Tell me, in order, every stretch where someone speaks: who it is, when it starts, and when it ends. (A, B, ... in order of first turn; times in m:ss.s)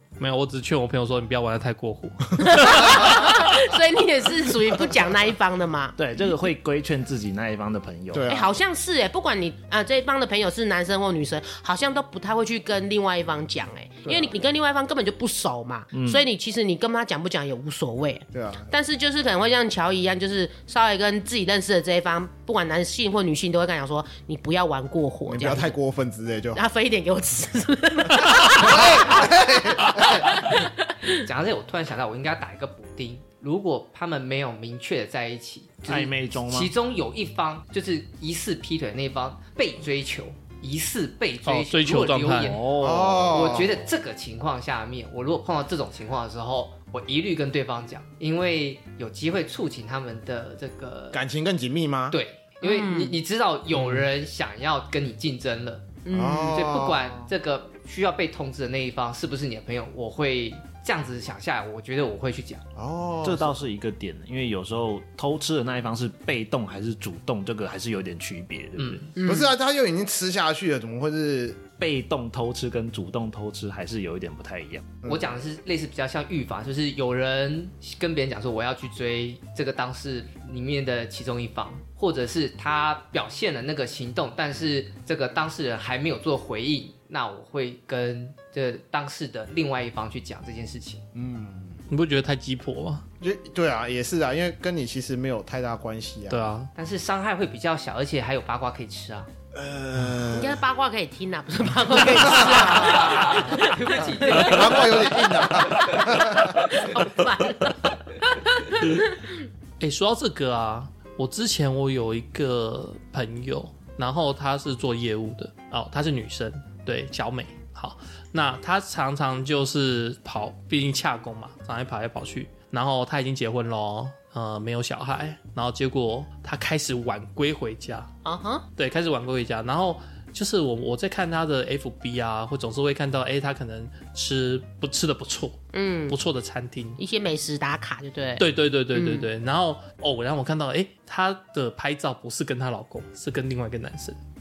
0:00.2-0:03.6 A
0:02.4-0:06.0 B
0:06.0-0:08.3 C
0:08.1-0:08.5 D
0:08.3-0:25.8 B
0:14.0-0:14.3 D
0:15.9-0:16.2 C
0:18.3-0:18.7 D
0:25.2-0:26.6 D
0:26.5-0:31.2 B
0:28.5-0:30.3 D
0:31.1-0:42.7 E
0:35.9-0:36.7 C
0:41.4-0:42.6 A
0:42.4-0:43.8 C
0:42.8-0:43.8 D
0:43.3-0:51.2 E
0:51.1-0:52.2 D
0:52.1-1:02.6 E
0:52.6-0:53.2 B
0:56.0-0:56.6 B
0:56.1-0:57.3 D
1:02.8-1:03.6 D
1:03.2-1:09.1 C
1:08.8-1:09.1 E
1:09.2-1:09.5 B
1:09.2-1:11.6 D
1:11.8-1:14.9 C
1:15.0-1:15.3 D
1:15.0-1:31.0 E
1:31.1-1:31.8 D
1:31.9-1:33.0 A
1:33.2-1:36.4 D
1:36.3-1:36.7 A
1:36.8-1:39.3 E
1:39.5-1:40.6 D
1:40.3-1:44.9 B
1:42.1-1:43.3 D
1:42.5-1:46.2 E
1:44.2-1:46.6 D
1:46.1-1:49.3 B
1:49.8-2:08.1 A
2:08.2-2:08.6 B
2:08.8-2:17.0 A
2:15.7-2:16.2 B
2:17.0-2:19.3 B
2:18.4-2:24.2 A